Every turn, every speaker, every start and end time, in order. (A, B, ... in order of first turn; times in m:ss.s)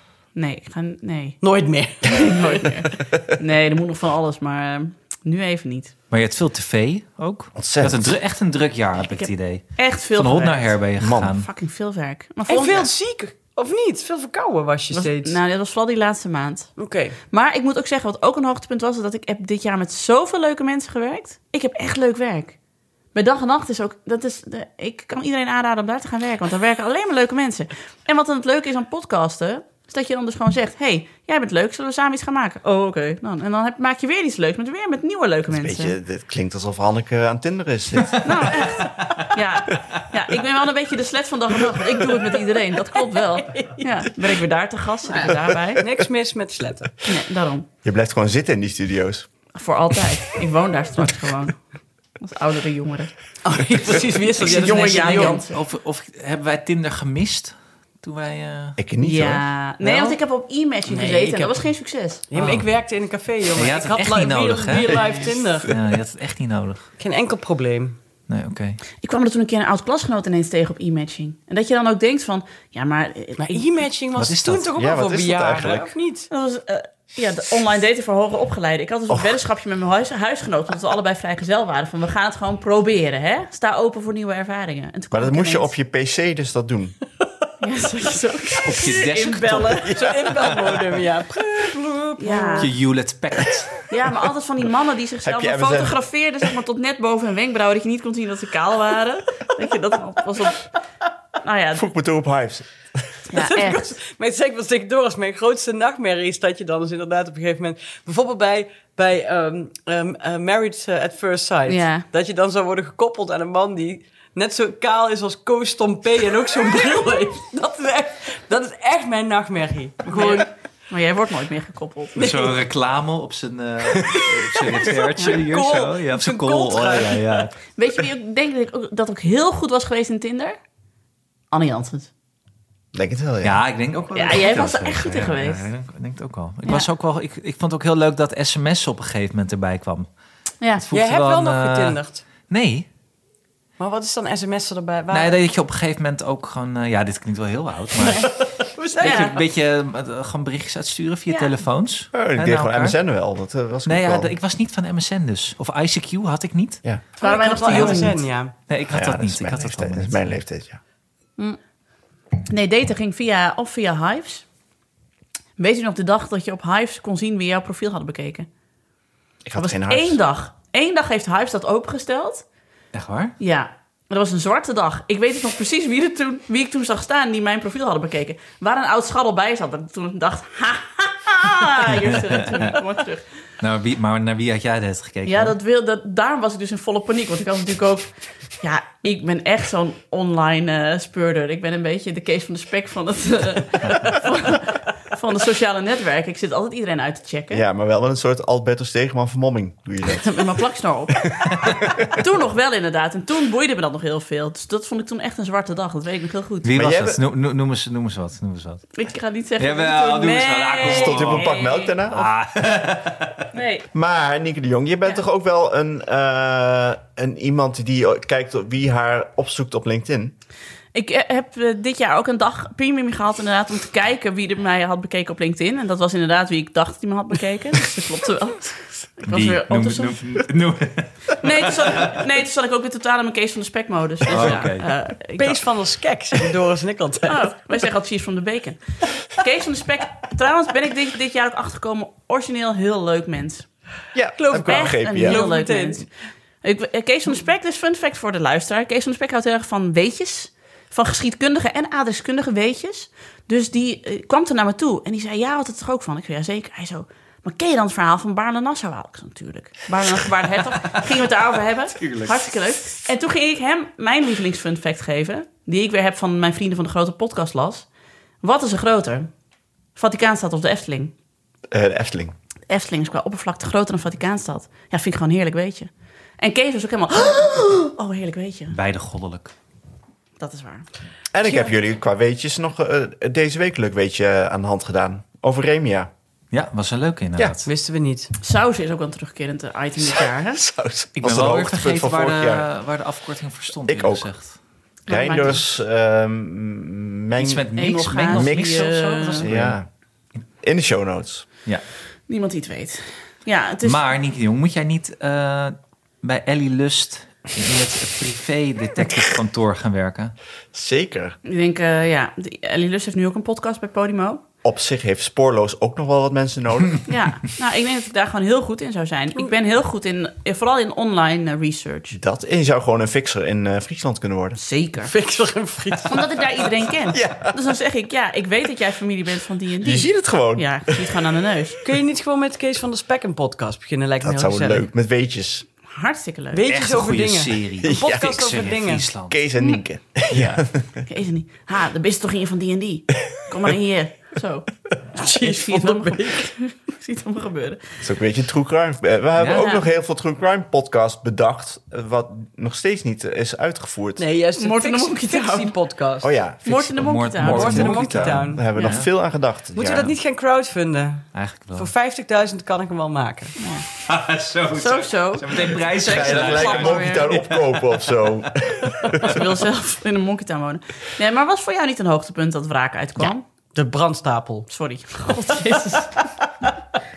0:00.4-0:01.4 A
0:01.4-0:02.8 B
0:02.0-0:05.9 A
0:06.1-0:11.5 C
0:07.6-0:08.1 D
0:09.0-0:12.8 A
0:11.0-0:11.3 D
0:12.5-0:15.4 B
0:14.9-0:16.7 A
0:16.8-0:17.2 B
0:17.3-0:22.6 A
0:23.1-0:36.0 A
0:35.5-0:38.7 D
0:38.2-0:45.8 A
0:43.3-0:43.9 B
0:45.8-0:46.9 B
0:47.0-0:47.7 A
0:47.8-0:49.3 D
0:49.5-0:51.6 A
0:52.2-0:53.1 A
0:53.4-0:55.4 B
0:54.4-0:55.6 A
0:54.5-0:58.8 C
0:58.8-0:59.4 D
0:59.0-1:02.2 A
0:59.8-1:00.2 B
1:00.9-1:01.6 B
1:02.3-1:05.7 B
1:02.3-1:02.7 C
1:03.5-1:06.9 C
1:07.0-1:08.0 B
1:08.3-1:08.8 C
1:09.0-1:13.6 A
1:13.4-1:16.3 B
1:14.2-1:14.7 C
1:14.7-1:15.9 D
1:16.3-1:25.7 A
1:19.1-1:19.4 D
1:25.1-1:26.9 D
1:27.6-1:30.0 A
1:28.6-1:30.5 C
1:29.9-1:32.7 B
1:32.2-1:32.7 A
1:32.6-1:33.7 C
1:33.9-1:40.7 A
1:35.2-1:36.0 D
1:41.4-1:41.8 A
1:41.7-1:43.2 D
1:43.3-1:44.0 A
1:43.3-2:00.5 B
1:51.7-1:52.0 A
2:00.1-2:02.5 A
2:02.2-2:07.5 C
2:02.2-2:02.5 B
2:03.9-2:07.5 B
2:07.8-2:10.6 A
2:11.5-2:12.1 A
2:12.9-2:13.6 D
2:13.4-2:20.1 C
2:14.1-2:15.7 A
2:20.8-2:22.8 C
2:20.9-2:22.2 B
2:23.8-2:25.3 B
2:25.1-2:28.4 C
2:28.1-2:29.4 B
2:29.0-2:33.0 C
2:29.0-2:29.4 A
2:32.1-2:34.3 D
2:33.8-2:36.8 C
2:37.2-2:38.2 A
2:37.2-2:38.5 B
2:37.6-2:38.1 C
2:38.7-2:40.4 C
2:38.9-2:40.8 D
2:42.5-2:44.4 A
2:45.6-2:48.5 A
2:49.4-2:50.2 D
2:49.6-2:52.4 A
2:52.9-2:53.3 C
2:53.4-3:03.2 A
3:01.9-3:02.7 C
3:03.6-3:05.6 C
3:05.2-3:17.6 A
3:17.5-3:20.5 D
3:20.1-3:21.5 A
3:21.4-3:22.1 D
3:22.1-3:26.7 A
3:26.6-3:28.9 C
3:26.7-3:27.2 D
3:28.9-3:32.0 A
3:29.6-3:31.5 C
3:30.8-3:32.3 D
3:32.1-3:33.4 C
3:33.5-3:33.8 A
3:33.9-3:40.3 D
3:40.9-3:50.2 A
3:49.3-3:52.1 C
3:51.4-3:55.6 A
3:54.3-3:54.8 C
3:55.4-3:57.5 B
3:57.3-4:03.7 A
4:04.1-4:05.4 D
4:04.4-4:06.0 B
4:04.7-4:06.0 A
4:06.6-4:27.9 A
4:22.0-4:22.4 C
4:28.4-4:29.3 A
4:30.0-4:31.1 A
4:31.7-4:32.3 D
4:32.7-4:38.8 A
4:38.7-4:39.5 C
4:40.4-4:40.9 A
4:41.3-4:46.1 D
4:46.5-4:47.7 C
4:47.6-4:48.3 B
4:48.4-4:50.6 A
4:50.0-4:52.6 D
4:51.2-4:54.6 C
4:53.8-4:54.3 D
4:55.1-4:55.6 A
4:55.1-4:57.7 D
4:57.4-4:59.8 C
4:57.7-4:59.4 A
4:58.3-4:59.9 D
5:00.6-5:01.4 D
5:02.3-5:04.0 A
5:03.8-5:10.3 C
5:10.7-5:11.4 D
5:11.4-5:14.4 A
5:14.6-5:17.0 D
5:17.0-5:22.2 A
5:22.1-5:24.6 D
5:24.6-5:25.1 A
5:25.0-5:26.4 B
5:26.1-5:31.8 A
5:27.1-5:27.7 D
5:29.8-5:31.2 D
5:31.8-5:34.9 B
5:34.2-5:35.6 D
5:35.9-5:36.6 A
5:36.5-5:39.0 B
5:36.7-5:39.4 C
5:37.8-5:38.6 D
5:39.2-5:41.0 D
5:40.3-5:40.6 C
5:41.1-5:48.0 A
5:45.2-5:46.5 B
5:48.0-5:54.2 D
5:49.4-5:49.8 C
5:49.5-5:49.8 A
5:54.2-5:56.3 B
5:54.6-5:55.7 A
5:56.2-6:00.1 D
5:56.6-5:57.9 A
5:57.0-5:59.1 C
5:57.5-5:58.6 B
5:58.7-5:59.0 A
5:59.7-6:03.6 B
6:01.3-6:01.9 C
6:03.6-6:03.9 A
6:04.0-6:08.5 C
6:04.7-6:07.3 A
6:06.0-6:09.4 D
6:09.2-6:13.4 A
6:13.7-6:14.7 B
6:14.7-6:16.1 A